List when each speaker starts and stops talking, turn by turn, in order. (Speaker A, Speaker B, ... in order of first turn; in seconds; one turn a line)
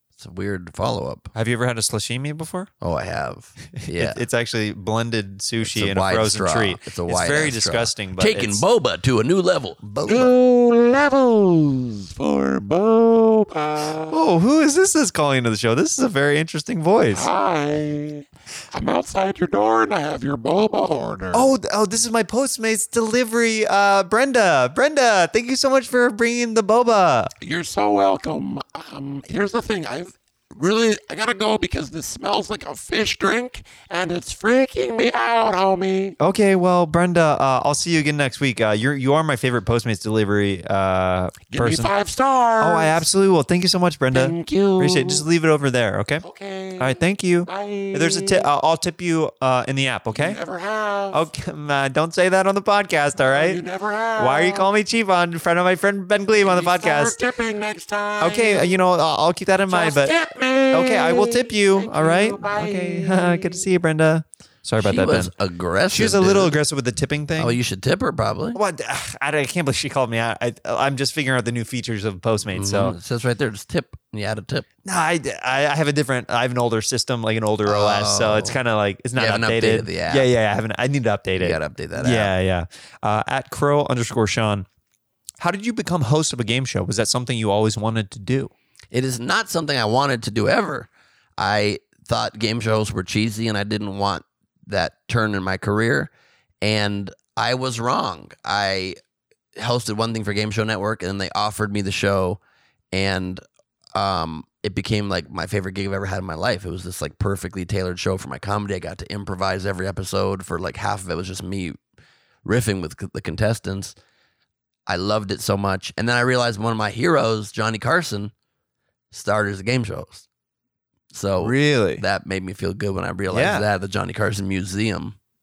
Speaker A: 0.2-1.3
Speaker B: 1.3-2.7
Speaker A: 2.8-4.2
Speaker B: 3.7-8.6
Speaker A: 5.6-10.3
Speaker C: 10.1-14.2
Speaker B: 14.1-17.3
Speaker C: 17.1-21.5
Speaker B: 21.3-27.3
Speaker C: 27.4-36.1
Speaker B: 36.2-41.9
Speaker C: 41.5-43.0
Speaker B: 42.6-46.2
Speaker C: 44.1-45.3
Speaker C: 46.2-48.5
Speaker B: 46.8-50.4
Speaker C: 50.1-51.2
Speaker B: 51.1-53.6
Speaker C: 53.2-54.7
Speaker B: 54.2-57.2
Speaker C: 56.4-58.8
Speaker B: 58.2-60.2
Speaker C: 59.7-63.6
Speaker B: 60.7-65.3
Speaker A: 64.8-66.6
Speaker B: 65.9-67.6
Speaker A: 67.4-68.6
Speaker B: 68.5-73.0
Speaker A: 72.5-74.7
Speaker B: 74.8-84.7
Speaker A: 77.7-78.6
Speaker A: 79.1-80.3
Speaker A: 81.4-82.3
Speaker B: 85.4-88.5
Speaker A: 88.9-99.0
Speaker A: 99.6-102.4
Speaker A: 102.9-103.4
Speaker A: 103.9-111.8
Speaker A: 112.5-114.0
Speaker A: 114.9-118.3
Speaker A: 119.1-120.3
Speaker A: 121.1-125.2
Speaker B: 121.4-122.0
Speaker B: 123.3-123.7